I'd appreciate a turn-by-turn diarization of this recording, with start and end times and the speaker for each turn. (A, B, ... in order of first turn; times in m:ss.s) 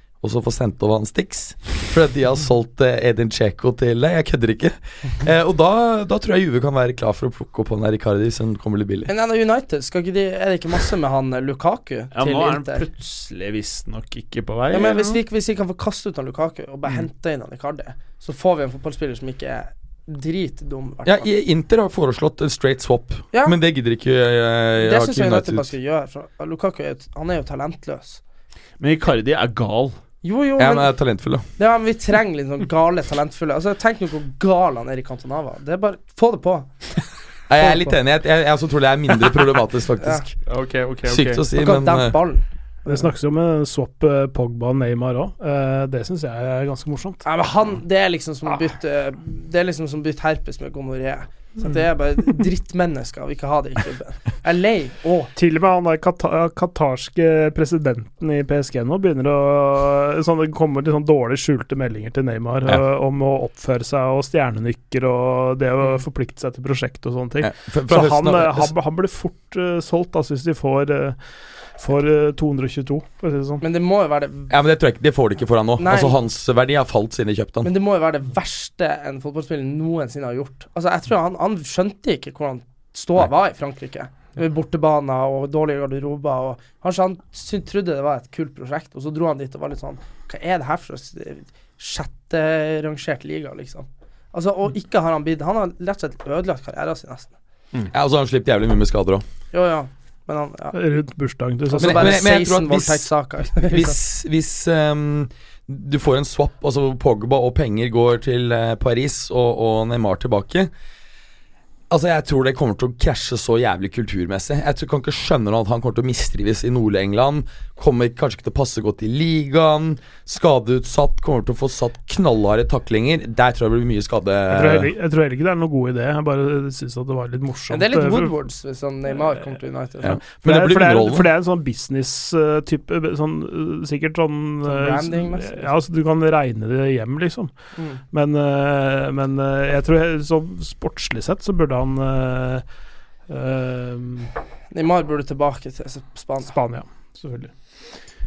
0:00.2-0:09.1 A
0:09.1-0:12.9 B
0:12.1-0:15.2 C
0:14.7-0:21.3 B
0:21.0-0:25.7 A
0:24.8-0:28.2 B
0:28.8-0:30.0 C
0:30.2-0:30.9 B
0:30.6-0:31.4 A
0:31.6-0:36.7 B
0:37.5-0:40.4 A
0:37.6-0:37.9 B
0:40.0-0:40.2 B
0:40.4-0:41.4 C
0:41.1-0:42.2 A
0:41.6-0:43.0 B
0:42.9-0:47.2 D
0:47.2-0:55.3 B
0:55.4-1:11.2 D
1:07.4-1:08.7 A
1:11.8-1:13.6 D
1:13.6-1:14.5 B
1:14.5-1:17.7 A
1:15.8-1:16.2 B
1:17.6-1:37.3 B
1:37.9-1:39.2 A
1:39.5-1:40.8 B
1:40.7-1:42.2 D
1:41.7-1:44.0 B
1:41.7-1:50.7 A
1:51.9-2:04.9 A
2:04.5-2:08.3 D
2:07.7-2:10.2 B
2:10.0-2:11.3 A
2:10.4-2:17.5 D
2:14.6-2:15.7 B
2:17.8-2:18.0 B
2:18.1-2:22.6 D
2:23.3-2:24.3 D
2:24.7-2:26.6 B
2:26.5-2:27.5 D